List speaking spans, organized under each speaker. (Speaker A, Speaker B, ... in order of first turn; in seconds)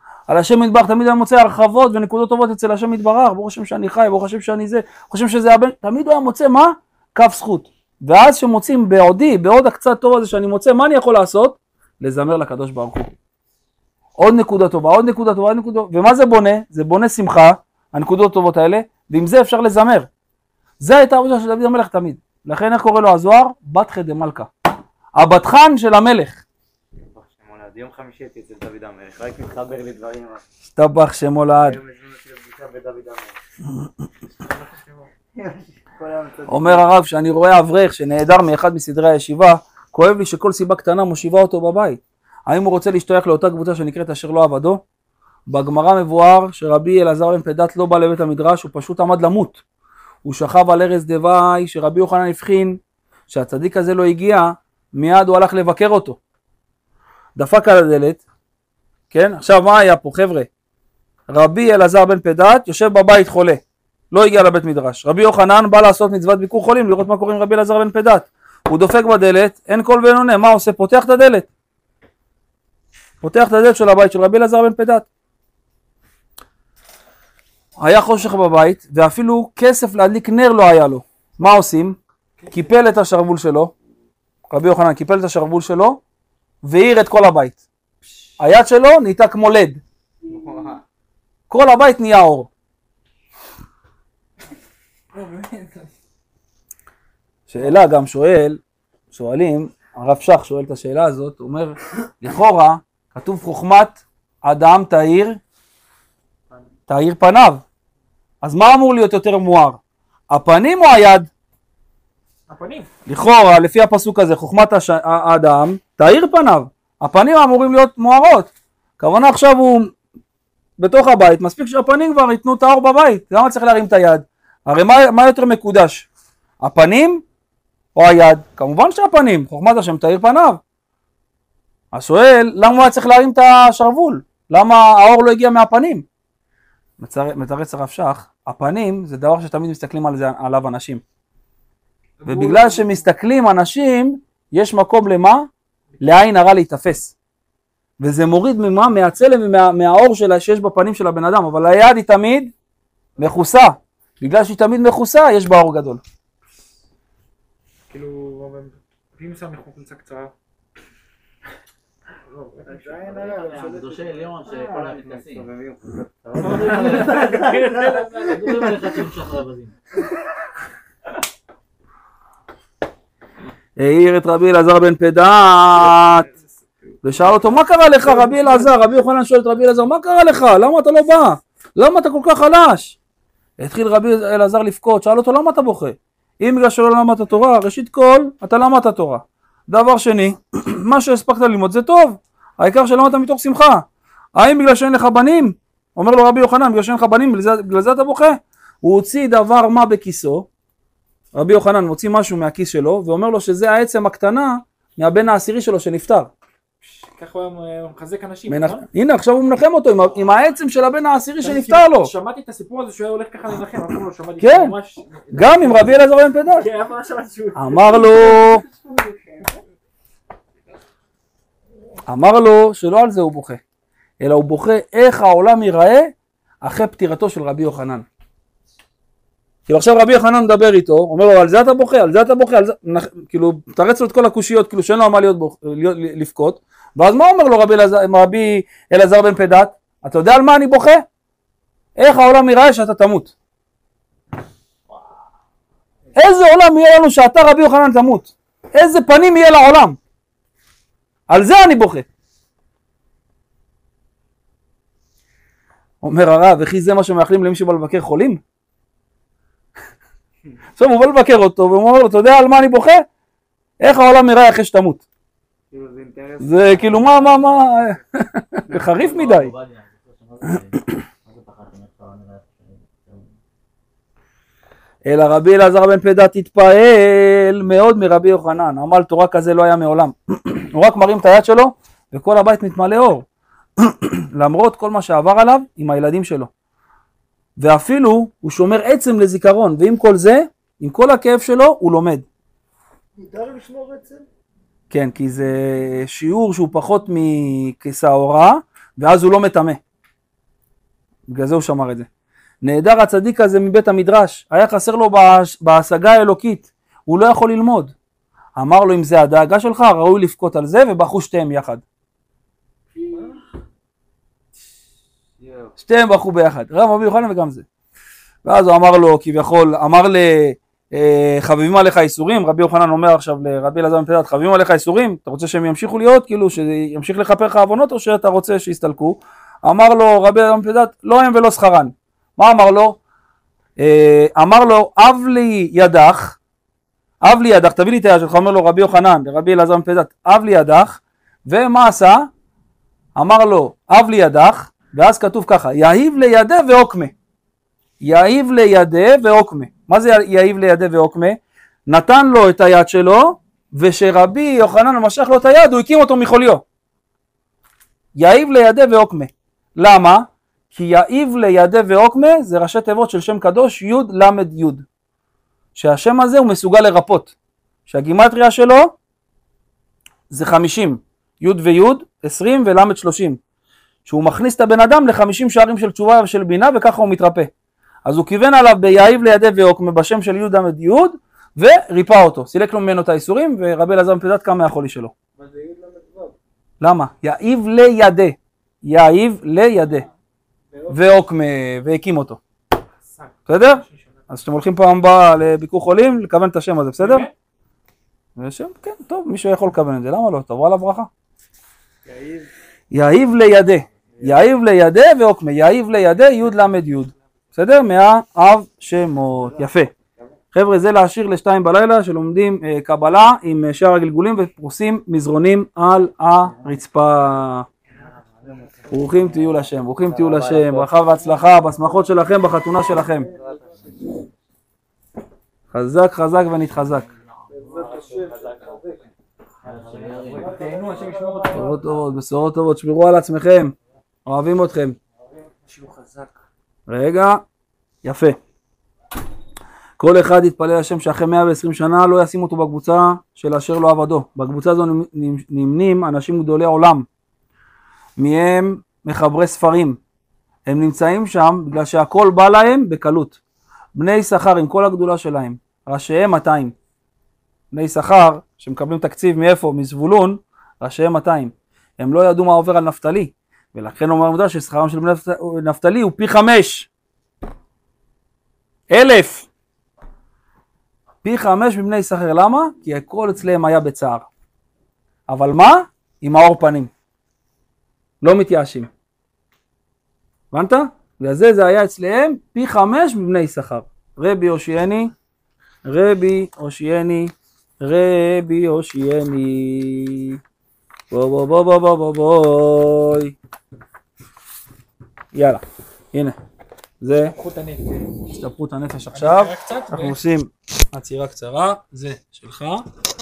Speaker A: 0.3-13.1, 14.2-20.1, 20.8-24.5, 25.1-26.4, 30.7-31.8, 36.5-44.8, 45.5-49.6, 50.2-56.2, 57.4-58.2, 59.1-60.5, 61.3-71.5, 73.2-75.1, 77.8-82.0, 82.5-83.7, 84.5-86.0, 86.6-87.6, 88.4-89.8, 91.5-92.5, 97.5-98.6, 99.1-105.4, 106.9-107.6, 108.4-111.3, 113.1-119.9, 120.8-126.1, 126.6-127.2, 127.9-130.6, 131.9-136.1, 137.0-141.0, 142.3-145.5, 146.0-147.1, 148.0-152.5, 153.2-156.0, 173.8-176.3, 177.0-183.0, 183.6-200.5, 201.3-206.3, 208.5-212.1, 214.4-214.7, 215.3-216.7, 217.5-218.6, 222.1-223.6, 224.2-228.1, 229.7-241.0, 242.0-243.3, 246.2-250.0, 251.3-252.1, 256.0-258.4, 260.8-263.1, 263.8-265.0, 266.4-269.5, 275.0-283.2, 283.8-286.5, 287.6-292.2, 294.9-299.8, 301.3-302.1, 302.6-307.9, 308.6-311.8, 315.8-317.6, 318.4-333.0, 333.8-336.4, 337.2-342.3, 343.1-347.1, 348.0-356.6, 358.1-364.8, 365.8-367.3, 367.9-368.9, 370.3-373.4, 374.1-377.5, 378.0-385.1, 386.8-390.1, 390.9-392.4, 393.5-397.3, 398.4-401.1, 402.9-409.9, 410.5-417.7, 418.9-423.3, 425.7-427.1, 431.5-433.7, 434.2-435.0, 436.9-437.4, 438.0-438.4, 440.0-447.1, 448.2-450.0, 450.6-453.4, 453.9-456.7, 457.7-466.9, 468.9-469.5, 471.2-474.3, 475.3-476.9, 478.2-478.9, 480.5-485.1, 485.8-490.4, 491.1-493.3, 495.3-495.6, 497.0-497.3, 498.3-502.8
Speaker B: 27.1-30.4, 31.5-33.4, 35.4-36.9, 90.3-90.8, 162.3-168.9, 265.7-268.0, 315.4-315.7, 402.1-402.5, 409.4-410.3, 417.9-421.0, 423.2-423.9, 427.7-428.8, 429.6-431.1
Speaker C: 34.4-35.1, 95.1-95.9, 112.5-112.9, 142.2-143.0, 157.9-160.3, 166.5-168.4, 206.8-208.8, 211.4-216.0, 216.5-219.4, 313.0-313.2, 393.1-394.1, 397.0-397.3, 430.5-431.7, 435.7-436.3, 497.3-498.2, 499.1-500.2
Speaker D: 162.7-164.0, 293.2-294.2, 385.4-386.4, 390.7-391.2, 421.8-422.1, 422.8-424.1, 427.5-429.1, 430.1-431.9
Speaker E: 163.0-165.5, 166.4-169.7, 268.7-273.3, 426.8-428.5, 429.6-430.7